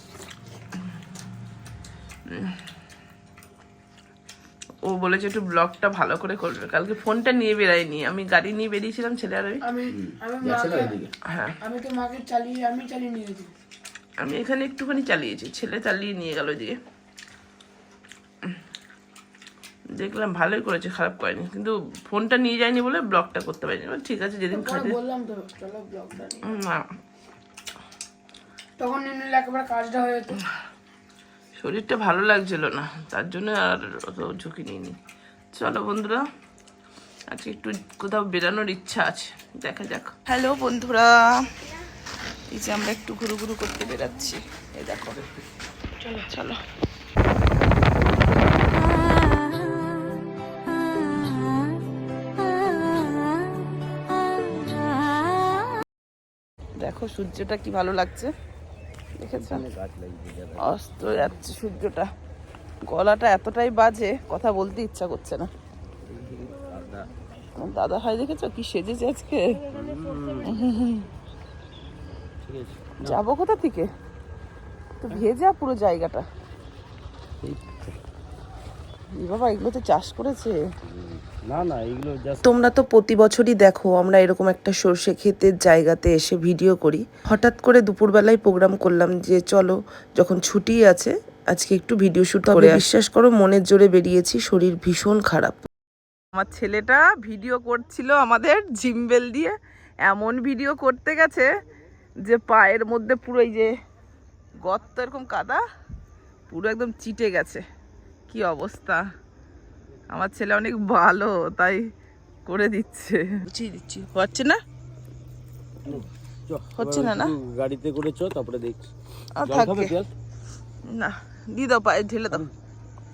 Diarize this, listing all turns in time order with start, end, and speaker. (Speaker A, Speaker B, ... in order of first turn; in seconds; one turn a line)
Speaker A: 2.3-2.6
Speaker A: 4.8-9.6
Speaker B: 9.6-10.9
Speaker C: 9.9-11.1
Speaker A: 11.3-11.5
Speaker B: 11.6-13.5
Speaker A: 14.2-16.8
Speaker A: 19.9-25.0
Speaker B: 24.5-26.5
Speaker A: 26.5-26.8
Speaker B: 28.8-30.4
Speaker A: 31.6-35.0
Speaker A: 35.5-36.2
Speaker A: 37.3-41.1
Speaker A: 42.5-45.2
Speaker A: 46.1-46.6
Speaker A: 56.8-58.3
Speaker A: 59.2-59.6
Speaker C: 59.3-60.7
Speaker A: 60.6-62.1
Speaker A: 62.9-65.5
Speaker C: 66.1-67.1
Speaker A: 67.6-69.6
Speaker C: 69.7-70.5
Speaker B: 69.8-70.5
Speaker A: 70.4-71.0
Speaker C: 72.4-73.2
Speaker A: 73.0-73.9
Speaker A: 75.0-76.2
Speaker C: 77.4-78.0
Speaker A: 79.1-80.6
Speaker C: 80.9-82.4
Speaker D: 82.4-95.6
Speaker A: 96.3-101.5
Speaker A: 102.2-103.7
Speaker A: 104.6-105.6
Speaker A: 106.5-107.6
Speaker A: 108.3-109.0
Speaker A: 110.1-111.8
Speaker A: 112.5-114.6
Speaker C: 115.8-118.9
Speaker A: 116.8-117.3
Speaker A: 119.4-119.9
Speaker C: 119.4-120.1
Speaker A: 120.9-122.5